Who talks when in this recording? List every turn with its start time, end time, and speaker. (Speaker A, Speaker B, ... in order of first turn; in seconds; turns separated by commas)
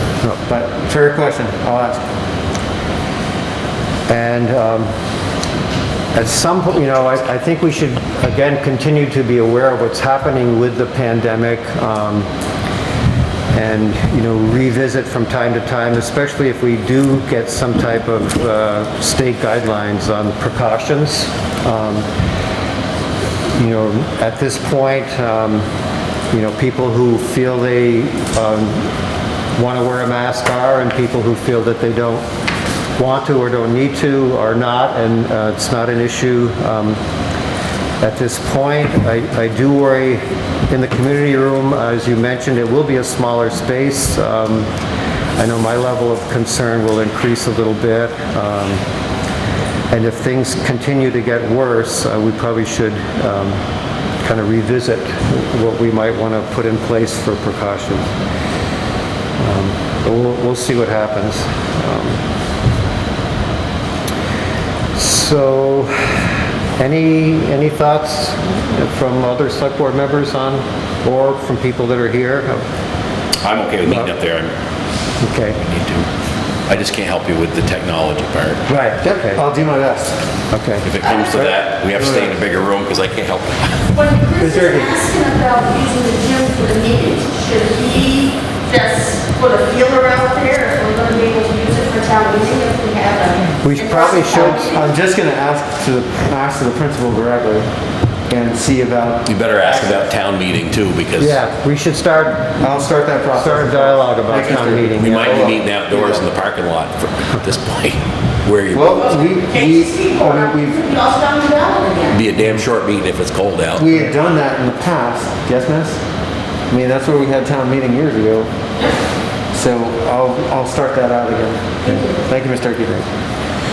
Speaker A: 0.5-2.0, Speaker B: 4.1-4.9, Speaker B: 6.1-12.3, Speaker B: 13.5-22.1, Speaker B: 23.5-25.7, Speaker B: 26.3-28.9, Speaker B: 29.6-32.3, Speaker B: 33.0-37.0, Speaker B: 38.0-44.7, Speaker B: 45.4-48.8, Speaker B: 49.9-53.6, Speaker B: 54.2-58.1, Speaker B: 59.4-62.2, Speaker B: 65.0-72.7, Speaker C: 73.4-74.5, Speaker B: 75.2-75.6, Speaker C: 75.5-76.1, Speaker C: 76.7-78.6, Speaker B: 78.7-79.4, Speaker A: 79.0-80.2, Speaker B: 80.5-80.9, Speaker C: 80.8-83.9, Speaker D: 81.0-81.3, Speaker A: 82.0-82.4, Speaker D: 83.9-94.8, Speaker A: 84.4-85.0, Speaker B: 93.6-94.7, Speaker A: 94.2-97.7, Speaker A: 98.3-100.1, Speaker C: 99.3-101.4, Speaker B: 101.2-102.6, Speaker A: 102.6-106.2, Speaker B: 103.3-105.4, Speaker C: 105.0-109.0, Speaker A: 108.7-110.8, Speaker D: 108.9-112.3, Speaker C: 112.1-113.8, Speaker A: 113.8-116.0, Speaker A: 116.7-118.5, Speaker A: 119.5-123.1, Speaker D: 121.8-122.2